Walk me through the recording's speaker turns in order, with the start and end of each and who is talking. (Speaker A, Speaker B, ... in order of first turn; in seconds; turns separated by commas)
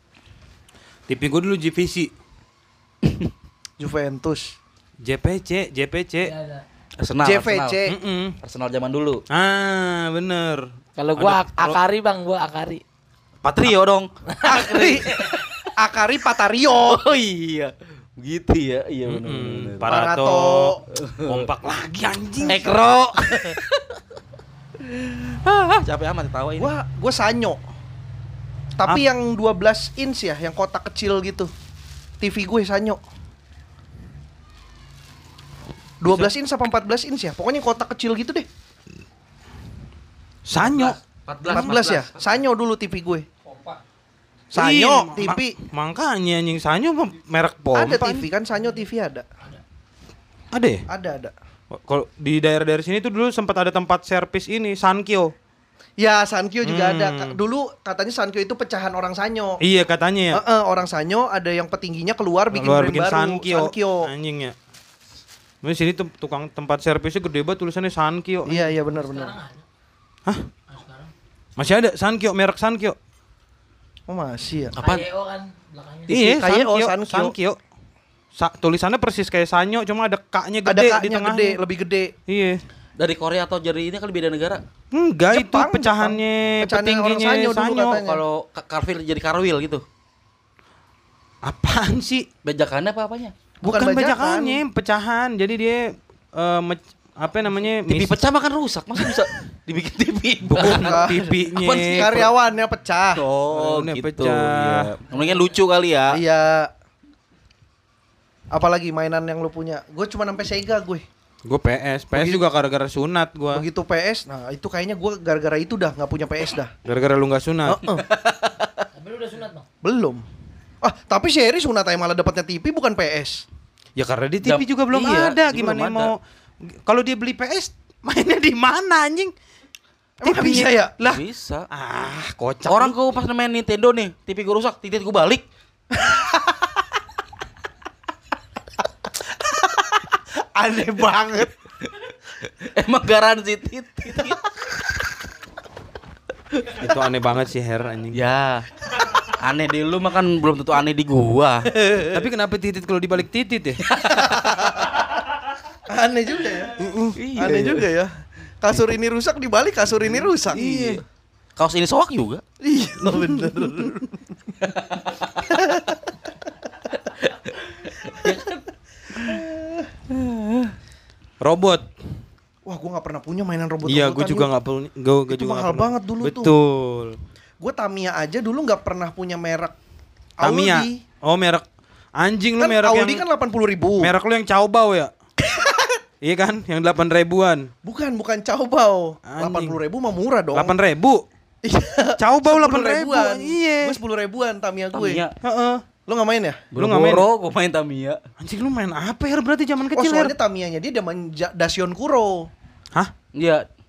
Speaker A: 1.1-2.1, Speaker B: 3.0-3.3, Speaker C: 3.8-4.6, Speaker A: 5.0-6.3, Speaker D: 6.2-6.6, Speaker B: 7.0-7.8, Speaker C: 7.2-8.0, Speaker A: 7.9-8.4, Speaker B: 8.4-9.2, Speaker A: 9.3-11.8, Speaker D: 11.0-12.8, Speaker B: 13.4-15.4, Speaker D: 14.3-15.3, Speaker C: 14.4-17.0, Speaker B: 16.9-20.0, Speaker A: 19.1-22.8, Speaker C: 19.9-20.8, Speaker B: 20.9-21.4, Speaker B: 22.5-23.8, Speaker B: 24.8-26.7, Speaker C: 26.6-27.6, Speaker C: 28.8-31.5, Speaker C: 32.2-33.0, Speaker C: 36.0-38.5, Speaker A: 36.0-36.3, Speaker A: 40.5-41.8, Speaker B: 40.6-42.4, Speaker C: 41.5-43.3, Speaker B: 43.5-43.8, Speaker C: 44.5-45.5, Speaker A: 44.5-48.3, Speaker C: 47.7-49.3, Speaker A: 50.5-50.9, Speaker C: 50.9-51.3, Speaker A: 51.7-55.3, Speaker C: 56.0-59.6, Speaker A: 56.6-57.4, Speaker A: 59.6-60.4, Speaker C: 60.3-64.1, Speaker A: 62.5-64.5, Speaker A: 65.6-68.7, Speaker C: 68.5-69.4, Speaker D: 68.9-69.6, Speaker D: 70.7-71.1, Speaker A: 71.6-73.0, Speaker C: 74.1-74.8, Speaker B: 74.7-75.1, Speaker D: 74.8-76.2, Speaker B: 76.1-76.4, Speaker A: 76.1-77.6, Speaker C: 76.3-77.3, Speaker A: 78.4-81.6, Speaker C: 80.7-82.1, Speaker A: 82.3-82.6, Speaker B: 83.0-84.6, Speaker A: 84.9-88.0, Speaker C: 85.3-88.2, Speaker B: 87.9-89.8, Speaker A: 91.4-92.3, Speaker B: 92.4-93.3, Speaker C: 93.6-94.6, Speaker A: 93.6-98.2, Speaker B: 97.9-102.3, Speaker A: 100.6-102.2, Speaker C: 100.6-103.2, Speaker B: 103.2-106.2, Speaker A: 103.5-104.9, Speaker C: 106.1-106.7, Speaker C: 108.5-111.0, Speaker A: 111.5-113.7, Speaker C: 112.1-112.4, Speaker C: 113.5-116.7, Speaker A: 116.9-118.0, Speaker C: 117.7-118.1, Speaker D: 118.9-119.7, Speaker C: 119.8-120.2, Speaker C: 120.8-123.5, Speaker A: 124.0-129.3, Speaker B: 124.4-126.1, Speaker C: 130.2-130.9, Speaker A: 130.2-132.9, Speaker B: 131.0-131.7, Speaker B: 132.7-135.4, Speaker C: 135.9-136.8, Speaker C: 139.4-141.5, Speaker B: 141.8-144.4, Speaker B: 146.6-146.8, Speaker A: 146.8-148.2, Speaker B: 148.1-148.7, Speaker B: 149.2-151.7, Speaker C: 151.7-152.2, Speaker A: 152.1-153.8, Speaker B: 153.8-154.4, Speaker C: 154.0-155.1, Speaker C: 155.9-160.7, Speaker B: 157.2-157.9, Speaker B: 160.5-161.0, Speaker A: 160.5-161.0, Speaker B: 161.6-162.4, Speaker C: 162.6-164.2, Speaker A: 163.0-163.9, Speaker B: 164.6-165.5, Speaker C: 165.5-166.0, Speaker B: 167.1-168.6, Speaker C: 169.1-169.9, Speaker B: 170.1-170.7, Speaker A: 171.4-171.9, Speaker C: 172.7-174.5, Speaker A: 173.8-177.2, Speaker C: 175.3-176.5, Speaker C: 177.6-179.8, Speaker C: 180.4-181.0, Speaker A: 180.4-181.7, Speaker A: 182.2-183.2, Speaker C: 182.6-184.1, Speaker A: 184.0-185.1, Speaker C: 185.4-186.0, Speaker A: 186.2-187.7, Speaker C: 187.8-190.8, Speaker A: 189.3-189.8, Speaker A: 190.6-191.2, Speaker C: 191.6-195.2, Speaker A: 192.2-194.0, Speaker B: 194.9-195.3, Speaker A: 195.4-195.8, Speaker C: 196.1-196.7, Speaker B: 196.7-198.2, Speaker A: 196.8-197.3, Speaker A: 198.4-200.3, Speaker C: 199.9-202.5, Speaker B: 203.3-203.7